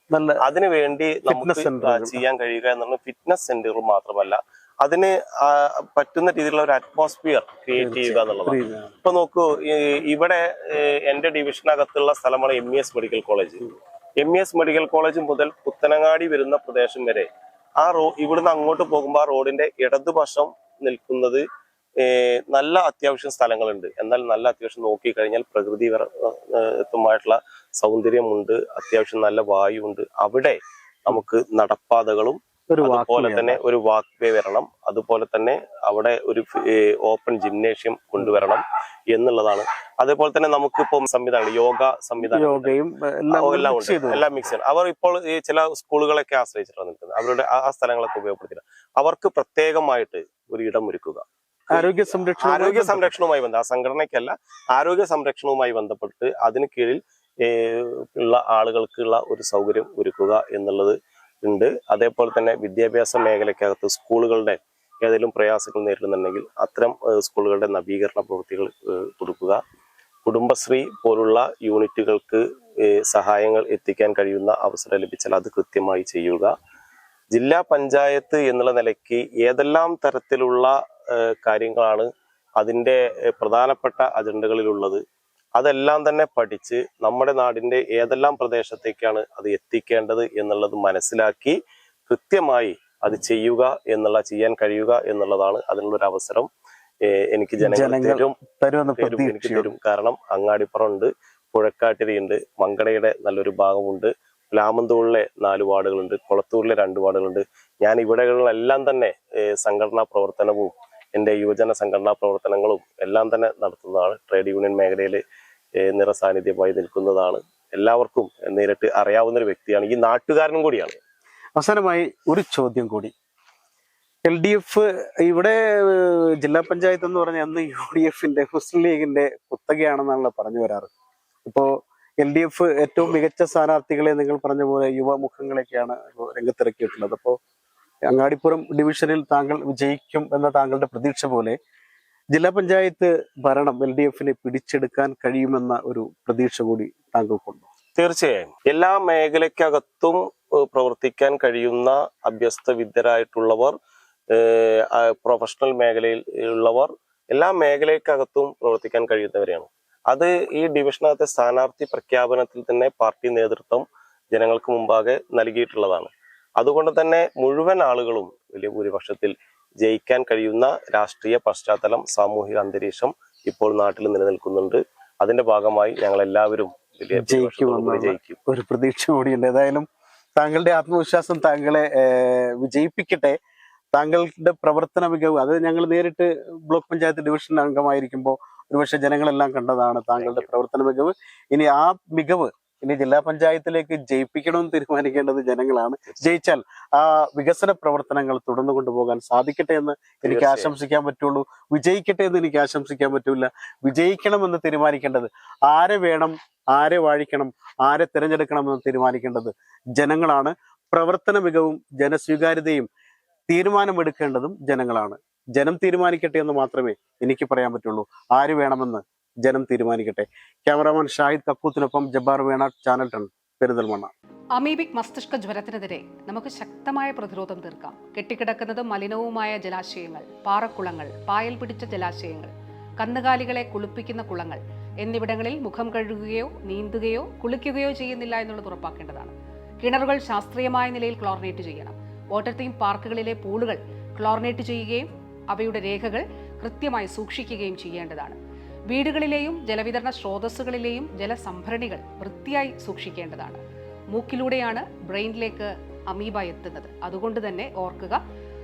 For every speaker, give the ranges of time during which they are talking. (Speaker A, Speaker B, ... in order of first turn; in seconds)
Speaker A: 0.1-0.4, 1.3-2.2, 7.8-8.9, 32.7-33.6, 42.3-44.3, 51.7-53.1, 97.6-99.7, 121.6-123.1, 124.2-130.9, 131.5-137.4, 138.1-141.6, 142.3-147.7, 177.2-179.9, 180.4-183.4, 183.9-212.9, 213.5-224.1
Speaker B: 0.4-17.3, 17.8-21.4, 22.0-42.8, 43.3-69.6, 70.2-76.5, 77.3-82.1, 82.6-85.0, 85.6-91.6, 92.1-96.5, 97.1-98.3, 99.0-115.2, 115.8-121.0, 147.9-153.8, 154.3-178.4, 190.2-190.5, 200.2-200.7
Speaker C: 224.6-248.4, 248.9-253.6, 254.1-258.2